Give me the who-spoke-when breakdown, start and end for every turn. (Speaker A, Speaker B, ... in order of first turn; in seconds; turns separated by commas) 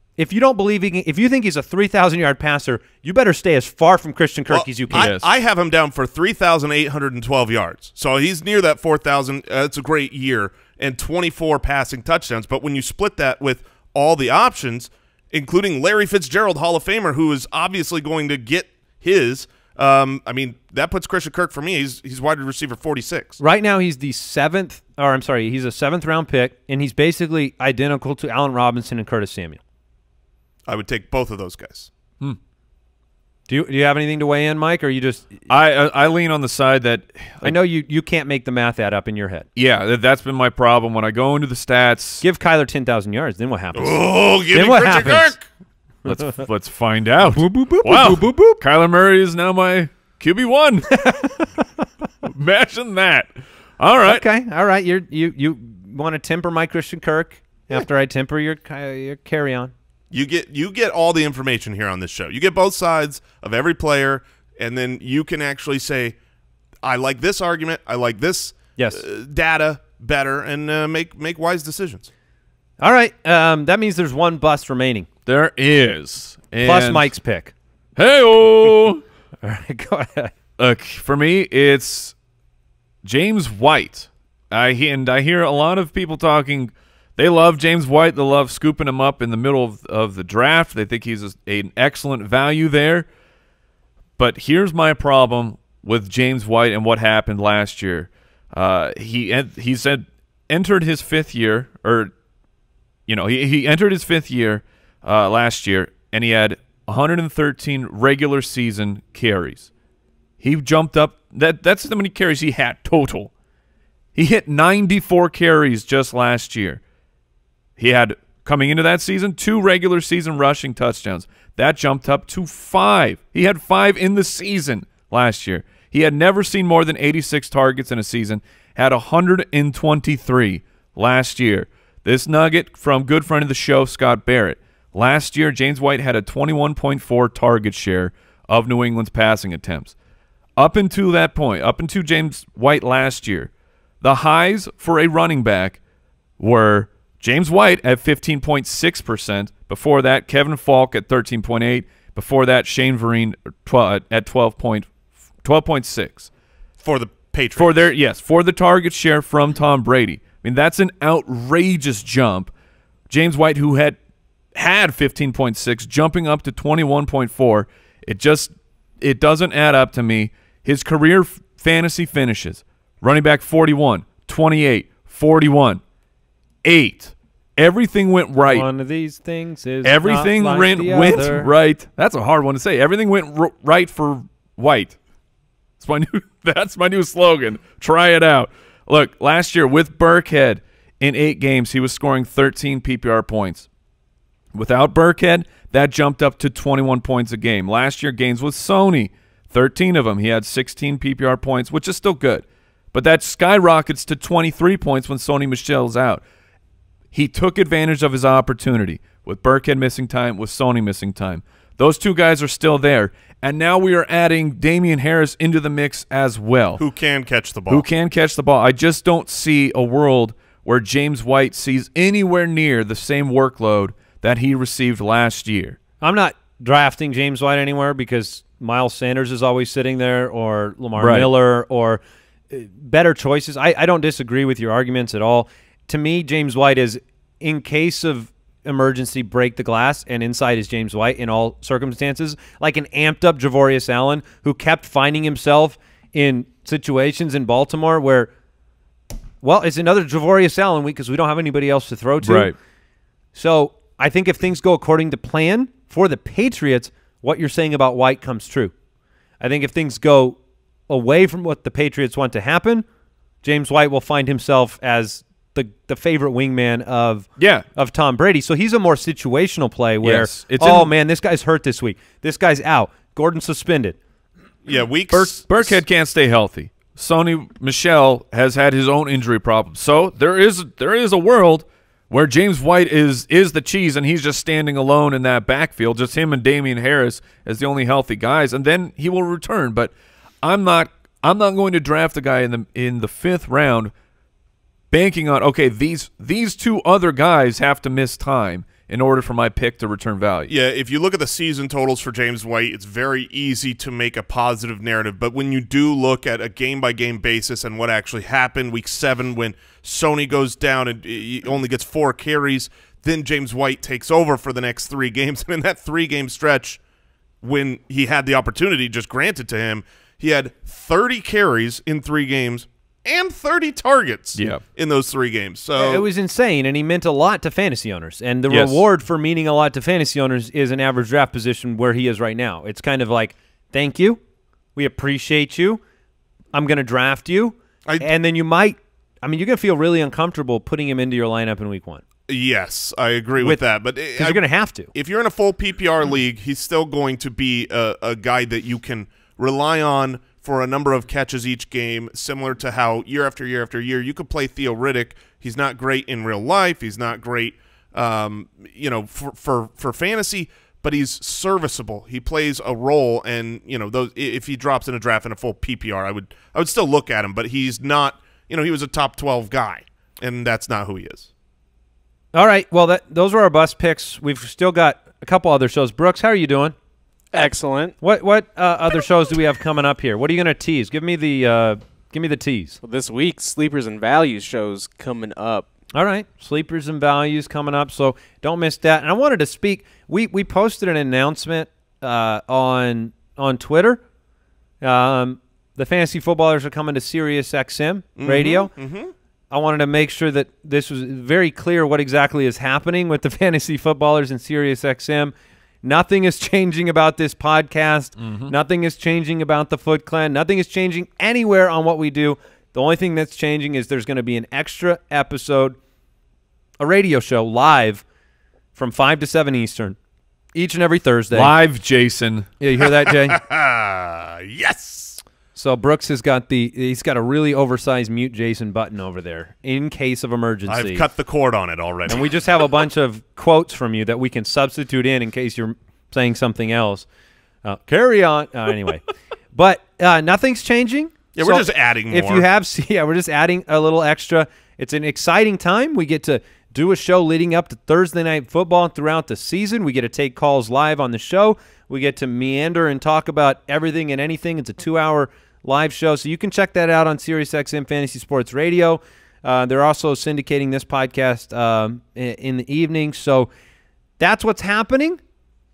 Speaker A: 0.2-5.1, Speaker B: 4.5-23.4, Speaker C: 4.9-5.3, Speaker A: 23.4-29.6, Speaker B: 30.7-31.9, Speaker A: 33.5-35.3, Speaker C: 35.5-37.5, Speaker A: 37.4-39.5, Speaker C: 39.5-42.2, Speaker A: 42.2-45.3, Speaker B: 43.7-45.5, Speaker C: 46.0-51.2, Speaker A: 47.3-48.6, Speaker C: 52.2-54.2, Speaker A: 54.0-59.7, Speaker B: 60.1-66.1, Speaker B: 66.8-72.1, Speaker A: 68.8-69.0, Speaker A: 72.8-75.1, Speaker C: 75.2-77.1, Speaker A: 76.6-77.5, Speaker C: 78.0-79.0, Speaker A: 79.4-80.3, Speaker C: 80.6-82.1, Speaker C: 83.0-93.0, Speaker C: 94.2-102.1, Speaker C: 103.1-109.7, Speaker C: 110.4-113.3, Speaker C: 114.1-116.8, Speaker C: 117.8-139.9, Speaker C: 140.6-143.5, Speaker C: 144.0-145.8, Speaker C: 146.4-154.9, Speaker C: 155.4-156.3, Speaker B: 156.8-157.9, Speaker C: 157.6-162.5, Speaker C: 163.1-164.0, Speaker C: 164.5-175.8, Speaker C: 176.6-178.7, Speaker A: 178.4-181.5, Speaker C: 179.8-184.9, Speaker C: 185.8-193.7, Speaker C: 194.5-206.2, Speaker C: 207.1-216.8, Speaker B: 216.8-217.8, Speaker C: 217.7-225.8, Speaker A: 226.0-248.3, Speaker C: 231.0-231.3, Speaker A: 249.4-252.5, Speaker C: 252.2-252.6, Speaker A: 253.3-258.7, Speaker A: 259.4-260.4, Speaker A: 260.9-262.8, Speaker A: 263.4-273.9, Speaker C: 267.4-267.6, Speaker C: 270.0-270.9, Speaker B: 274.6-275.8, Speaker C: 275.1-289.9, Speaker C: 290.4-293.9, Speaker C: 294.9-300.5, Speaker B: 300.5-316.8, Speaker B: 317.4-326.0, Speaker C: 324.4-324.6, Speaker A: 325.8-334.2, Speaker C: 328.5-328.8, Speaker A: 334.7-335.8, Speaker A: 336.5-342.0, Speaker B: 342.3-371.3, Speaker A: 344.2-344.9, Speaker A: 372.3-376.7, Speaker D: 377.3-377.9, Speaker A: 377.3-382.8, Speaker D: 382.8-385.7, Speaker A: 385.9-394.0, Speaker A: 394.8-398.7, Speaker B: 398.2-399.1, Speaker A: 399.5-415.8, Speaker C: 408.2-408.5, Speaker A: 416.8-418.0, Speaker A: 418.7-420.0, Speaker A: 420.5-421.5, Speaker C: 421.3-422.5, Speaker A: 422.6-423.4, Speaker B: 423.1-425.2, Speaker A: 425.5-431.0, Speaker B: 430.7-432.3, Speaker A: 432.1-437.1, Speaker A: 437.6-463.5, Speaker B: 441.3-442.4, Speaker A: 464.2-465.2